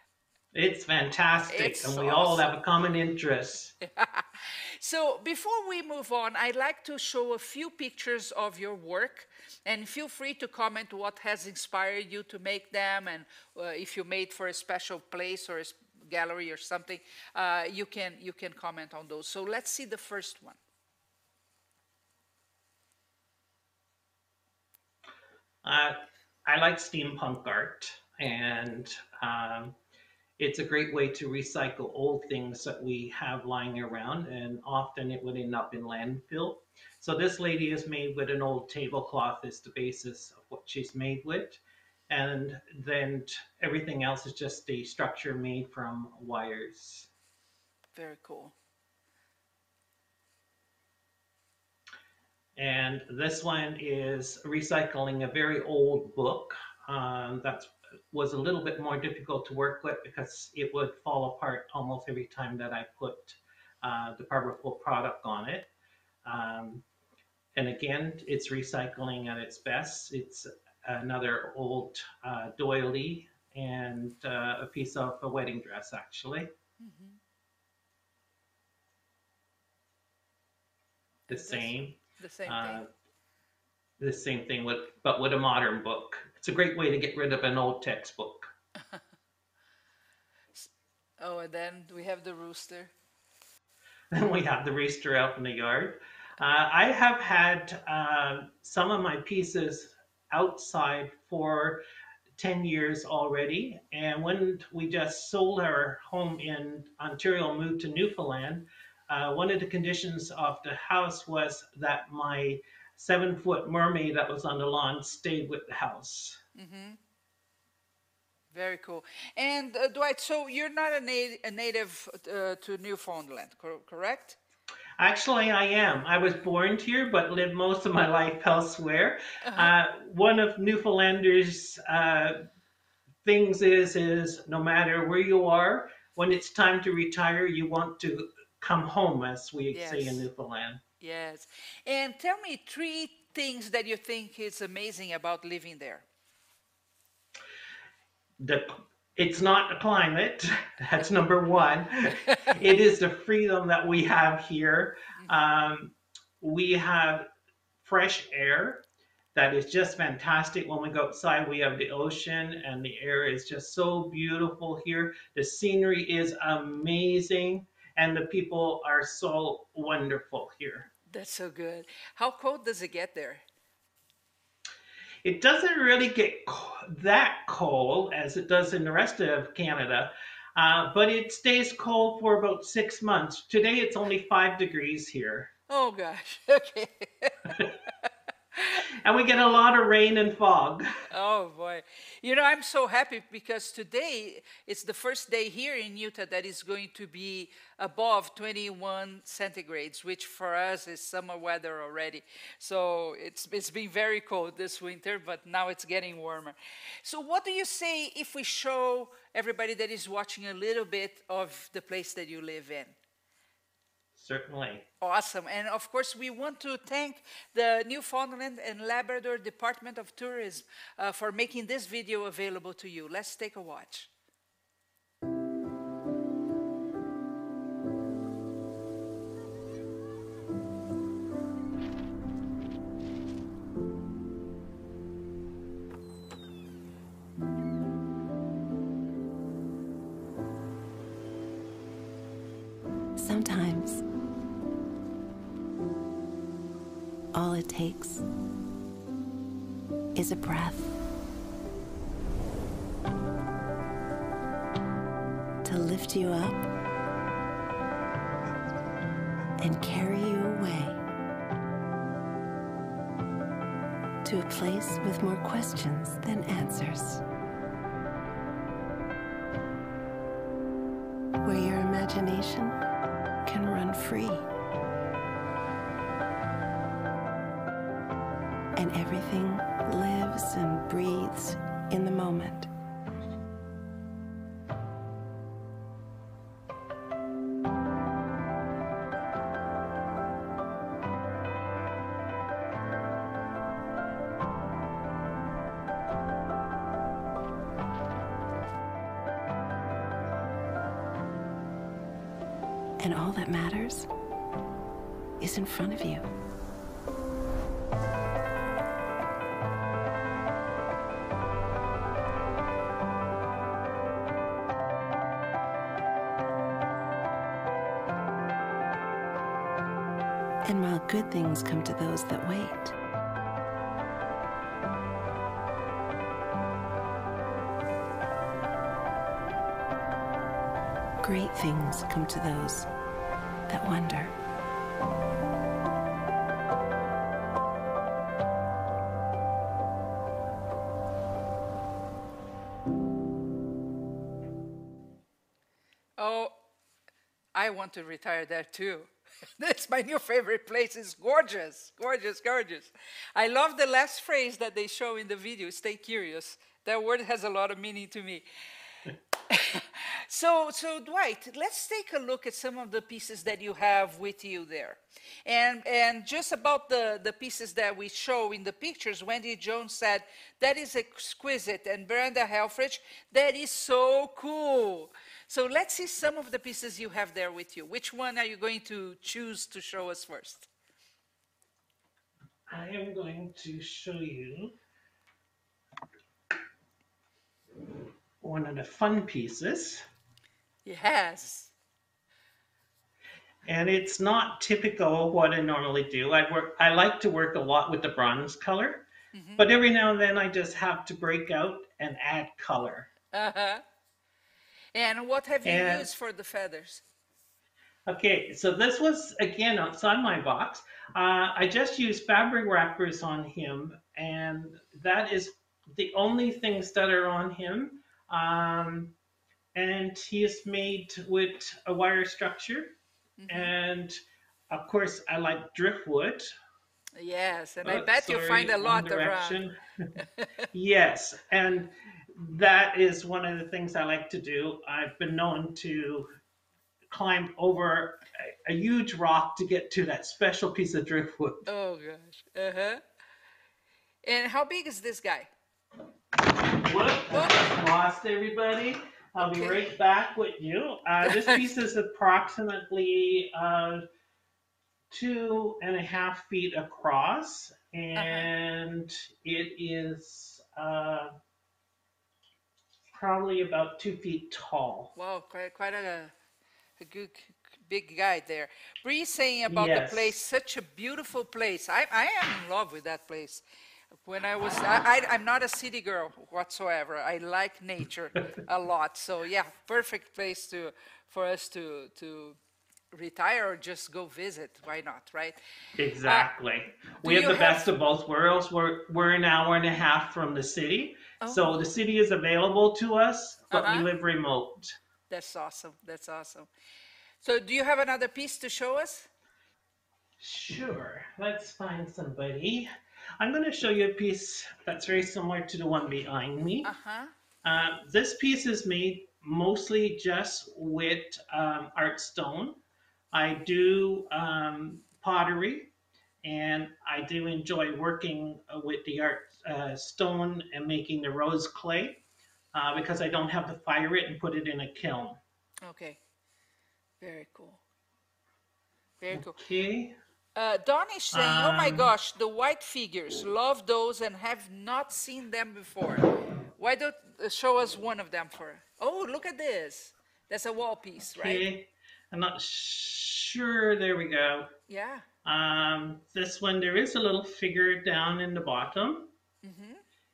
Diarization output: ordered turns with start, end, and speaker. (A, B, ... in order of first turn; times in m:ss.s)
0:00.5-0:03.7 A
0:01.5-0:02.4 B
0:03.8-0:20.6 B
0:25.6-0:29.8 A
0:30.4-0:47.1 A
0:47.9-0:48.5 B
0:52.6-1:05.7 A
1:06.2-1:06.8 A
1:07.5-1:16.5 A
1:16.8-1:17.2 B
1:21.3-1:22.8 B
1:21.3-1:22.9 A
1:24.0-1:28.5 A
1:28.8-1:29.0 B
1:30.5-1:32.9 B
1:34.1-1:41.8 A
1:42.4-1:56.4 A
1:56.6-1:57.0 B
1:58.5-2:04.4 B
2:05.0-2:12.4 A
2:09.4-2:09.7 B
2:13.2-2:20.8 A
2:19.7-2:20.2 B
2:21.0-2:26.0 B
2:28.4-2:37.2 A
2:32.3-2:32.5 B
2:37.8-2:50.9 A
2:51.1-2:53.4 B
2:55.2-3:05.5 A
3:05.7-3:08.8 B
3:09.0-3:10.8 A
3:11.1-3:33.0 B
3:34.2-3:34.8 A
3:35.0-3:44.1 B
4:03.2-4:04.0 C
4:07.3-4:08.2 C
4:10.1-4:10.9 C
4:15.6-4:16.6 C
4:19.6-4:21.0 C
4:24.2-4:27.2 C
4:31.4-4:32.8 C
4:33.4-4:34.4 C
4:38.8-4:42.7 C
5:03.0-5:04.1 C
5:05.4-5:06.3 C
5:20.6-5:23.0 C
5:31.2-5:32.9 C
5:33.7-5:34.4 C
5:46.2-5:46.5 B
5:47.5-5:58.4 B
5:59.5-6:20.7 B
6:22.7-6:24.8 A
6:28.4-6:30.0 A
6:30.8-6:31.7 B
6:33.6-6:39.1 A
6:39.3-6:39.7 B
6:39.6-6:43.1 A
6:43.3-6:43.8 B
6:44.9-6:47.0 B
6:45.6-6:46.1 A
6:48.1-6:59.1 A
6:59.7-7:02.9 A
7:03.4-7:03.7 B
7:03.5-7:04.2 A
7:04.7-7:06.5 A
7:07.2-7:09.6 B
7:07.8-7:09.8 A
7:10.2-7:10.7 B
7:10.7-7:16.3 A
7:17.1-7:21.6 A
7:21.7-7:23.0 B
7:24.2-7:25.5 B
7:26.5-7:34.0 A
7:27.3-7:27.7 B
7:29.4-7:29.8 B
7:31.2-7:31.6 B
7:35.1-7:41.3 A
7:38.1-7:38.5 B
7:43.1-7:45.1 A
7:45.1-7:46.3 B
7:47.0-7:53.6 B
7:49.7-7:50.4 A
7:54.2-8:02.6 B
8:03.1-8:05.6 B
8:06.0-8:14.9 A
8:07.2-8:07.8 B
8:11.4-8:11.7 B
8:13.7-8:14.1 B
8:15.3-8:16.7 B
8:17.4-8:19.3 B
8:20.4-8:26.9 A
8:26.8-8:27.3 B
8:27.6-8:32.8 A
8:33.3-8:35.9 A
8:36.4-8:42.2 A
8:42.7-8:45.4 A
8:45.8-8:46.2 B
8:47.2-8:47.8 B
8:49.2-8:49.6 B
8:49.3-8:50.2 A
8:50.6-9:01.6 B
8:51.3-8:52.1 A
9:01.3-9:04.7 A
9:04.9-9:05.2 B
9:05.4-9:09.3 A
9:09.6-9:10.0 B